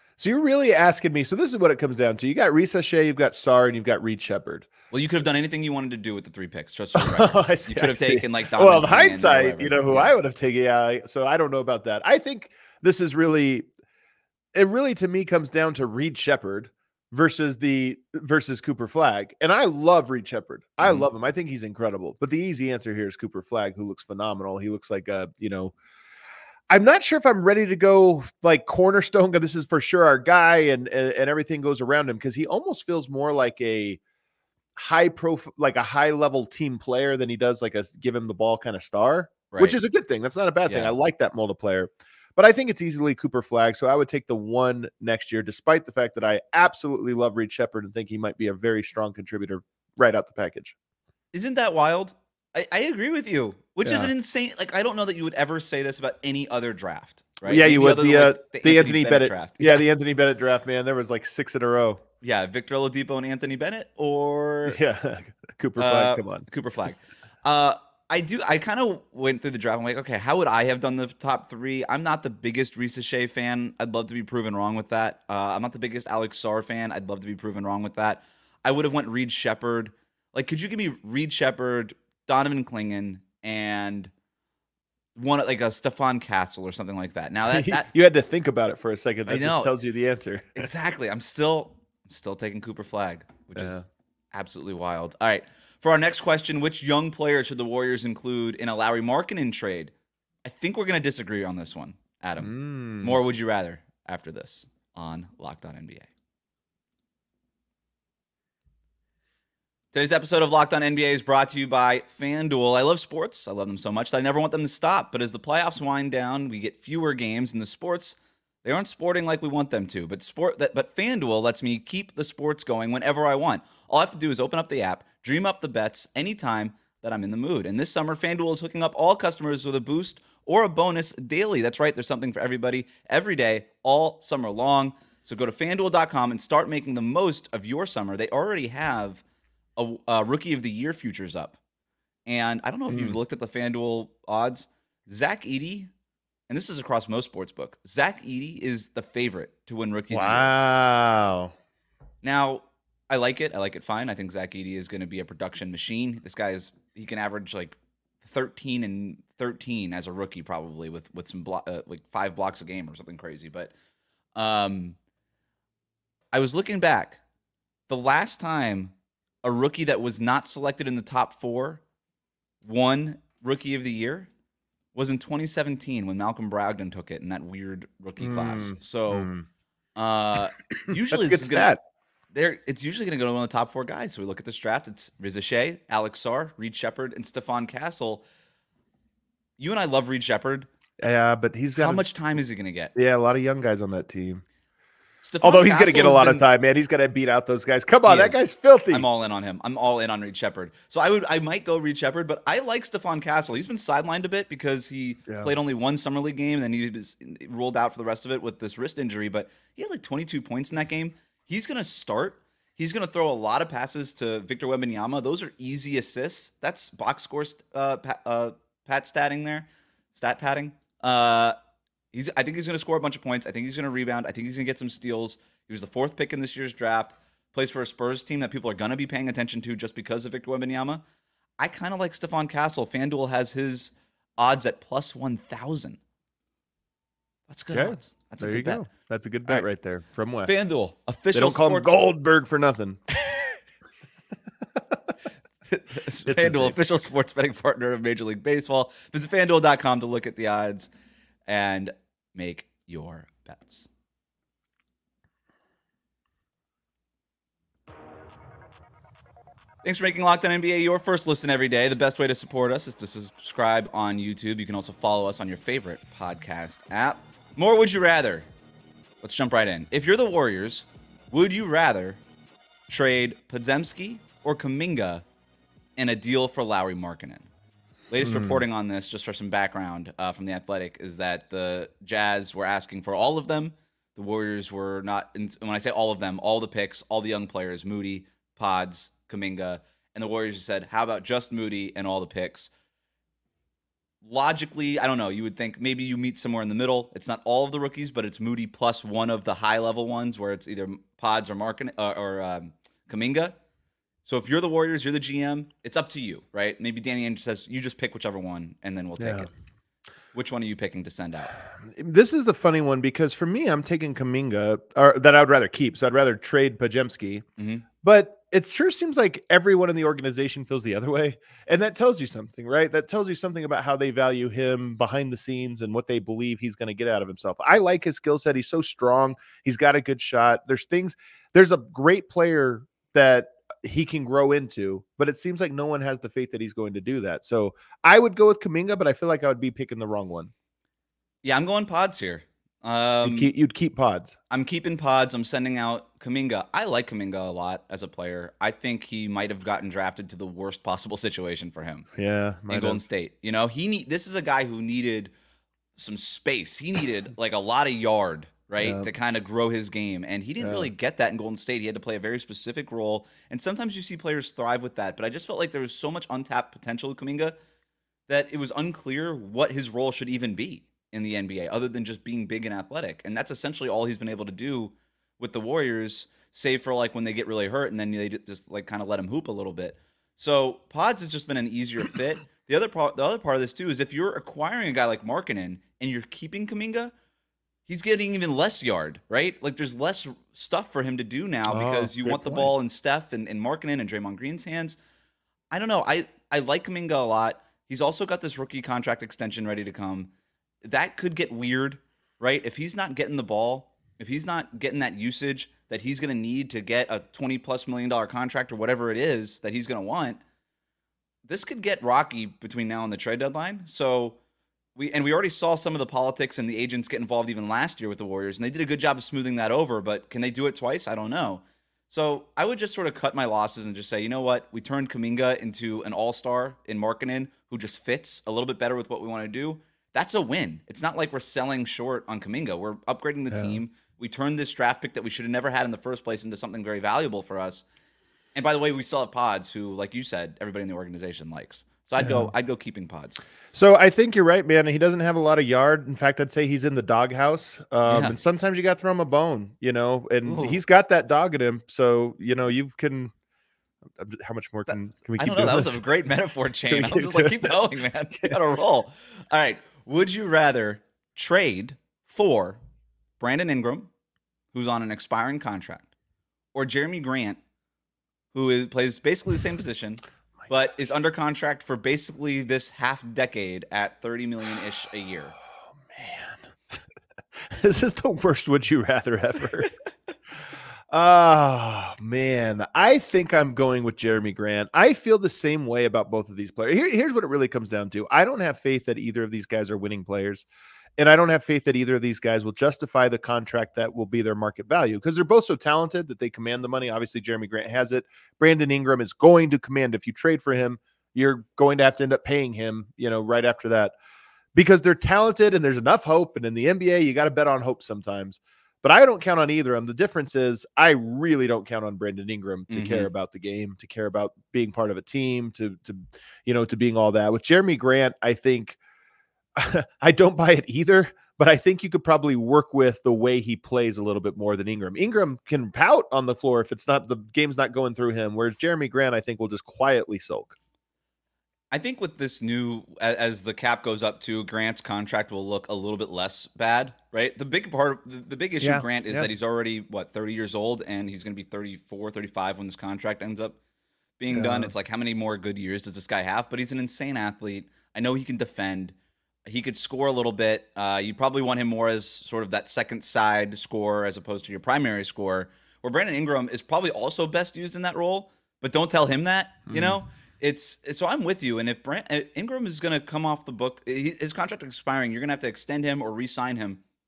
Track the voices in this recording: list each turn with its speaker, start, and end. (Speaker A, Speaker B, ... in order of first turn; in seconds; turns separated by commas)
Speaker A: 0.2-4.7, Speaker B: 4.9-10.1, Speaker A: 6.9-13.7, Speaker A: 14.5-25.7, Speaker A: 26.7-34.0, Speaker A: 34.8-50.7, Speaker B: 39.5-39.8, Speaker B: 40.6-40.9, Speaker B: 51.3-59.9, Speaker A: 53.8-54.1, Speaker A: 57.4-62.0, Speaker B: 62.2-64.8, Speaker A: 64.7-66.5, Speaker B: 65.8-84.1, Speaker B: 85.2-87.9, Speaker A: 87.5-90.7, Speaker B: 89.2-89.7, Speaker B: 90.5-93.8, Speaker A: 93.5-93.8, Speaker B: 94.3-99.9, Speaker B: 100.4-106.1, Speaker A: 102.4-103.2, Speaker B: 109.9-139.2, Speaker B: 139.8-141.6, Speaker B: 142.2-145.9, Speaker A: 142.9-143.2, Speaker B: 146.5-150.5, Speaker A: 150.1-151.5, Speaker B: 152.2-163.7, Speaker B: 164.3-165.0, Speaker B: 166.3-167.2, Speaker B: 167.9-168.9, Speaker B: 169.4-171.8, Speaker B: 172.6-174.3, Speaker B: 174.9-179.3, Speaker A: 178.2-179.4, Speaker B: 179.9-181.7, Speaker A: 181.1-181.8, Speaker B: 182.3-188.2, Speaker B: 189.6-190.7, Speaker A: 191.0-192.0, Speaker B: 191.7-192.9, Speaker A: 192.9-194.4, Speaker B: 195.2-196.4, Speaker A: 195.4-199.1, Speaker B: 198.1-221.6, Speaker B: 222.1-231.0, Speaker B: 231.6-236.0, Speaker B: 237.5-238.8, Speaker A: 237.7-240.5, Speaker B: 240.4-242.0, Speaker A: 241.3-243.0, Speaker B: 245.7-250.9, Speaker A: 246.2-246.8, Speaker B: 251.5-253.9, Speaker B: 259.8-268.5, Speaker B: 269.2-272.2, Speaker B: 272.9-275.2, Speaker B: 275.9-277.5, Speaker B: 278.1-292.7, Speaker A: 278.2-278.6, Speaker B: 294.2-303.6, Speaker B: 304.2-309.5, Speaker A: 309.2-309.5, Speaker B: 310.3-311.5, Speaker A: 311.8-317.4, Speaker B: 317.6-317.8, Speaker A: 318.0-340.5, Speaker B: 341.4-343.5, Speaker A: 343.2-344.4, Speaker B: 344.5-352.1, Speaker A: 352.1-353.0, Speaker B: 352.7-355.3, Speaker B: 356.0-367.5, Speaker A: 358.8-359.1, Speaker A: 360.6-360.9, Speaker B: 368.3-387.1, Speaker B: 387.9-395.0, Speaker A: 391.7-392.7, Speaker B: 395.7-400.3, Speaker B: 400.8-410.4, Speaker B: 411.4-414.4, Speaker B: 414.9-437.8, Speaker A: 433.5-433.8, Speaker B: 438.5-443.4, Speaker A: 442.2-442.5, Speaker A: 443.7-453.3, Speaker B: 448.1-448.4, Speaker B: 450.4-450.8, Speaker A: 454.1-456.0, Speaker B: 454.9-462.8, Speaker A: 456.9-457.8, Speaker B: 463.4-464.1, Speaker B: 464.7-466.1, Speaker B: 466.7-467.6, Speaker B: 468.5-475.5, Speaker A: 476.0-477.0, Speaker A: 477.6-479.9, Speaker A: 481.1-490.6, Speaker A: 491.2-504.1, Speaker A: 504.7-519.0, Speaker B: 512.9-513.3, Speaker A: 519.8-530.7, Speaker B: 531.9-543.8, Speaker A: 538.8-539.5, Speaker B: 544.4-549.1, Speaker A: 544.5-544.9, Speaker B: 549.6-567.0, Speaker A: 559.9-560.2